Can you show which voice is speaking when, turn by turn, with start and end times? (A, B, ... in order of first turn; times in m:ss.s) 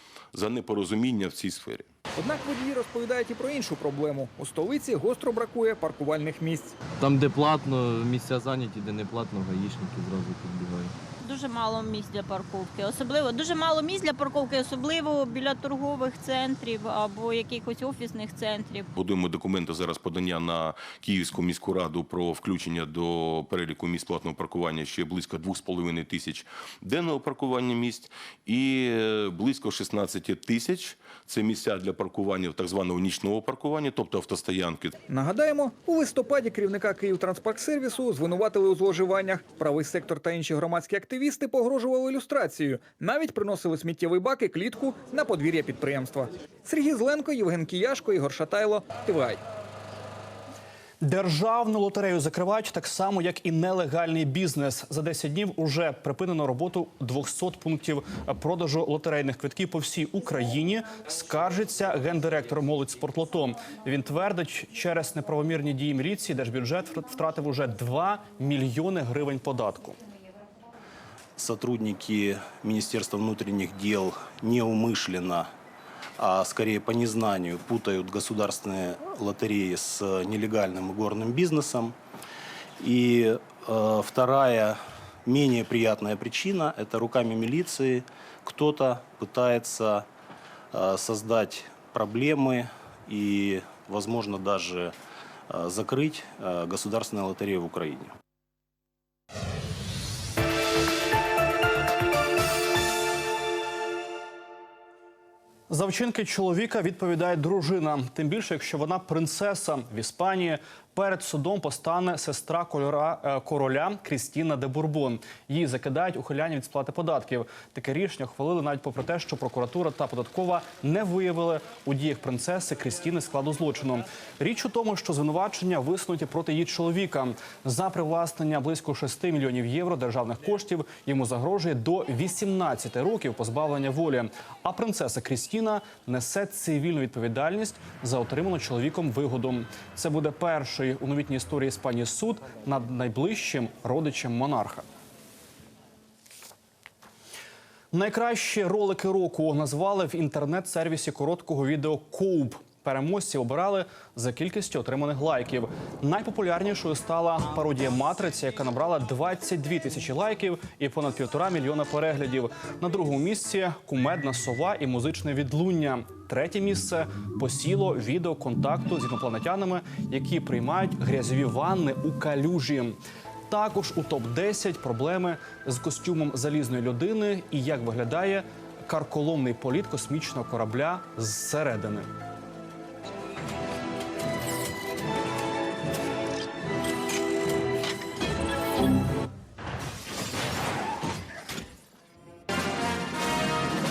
0:00.3-0:01.9 A
0:02.2-0:06.8 B
0:07.0-0:10.9 C
0:11.2-0:18.9 D
0:18.9-0:35.0 A
0:35.1-0:49.4 B
0:51.0-1:10.0 E
1:11.4-1:15.5 F
1:16.2-1:22.0 F
1:22.8-1:30.1 F
1:30.7-1:34.9 F
1:35.5-1:38.1 F
1:45.7-2:24.8 E
2:27.9-2:53.0 E
2:53.5-3:02.1 E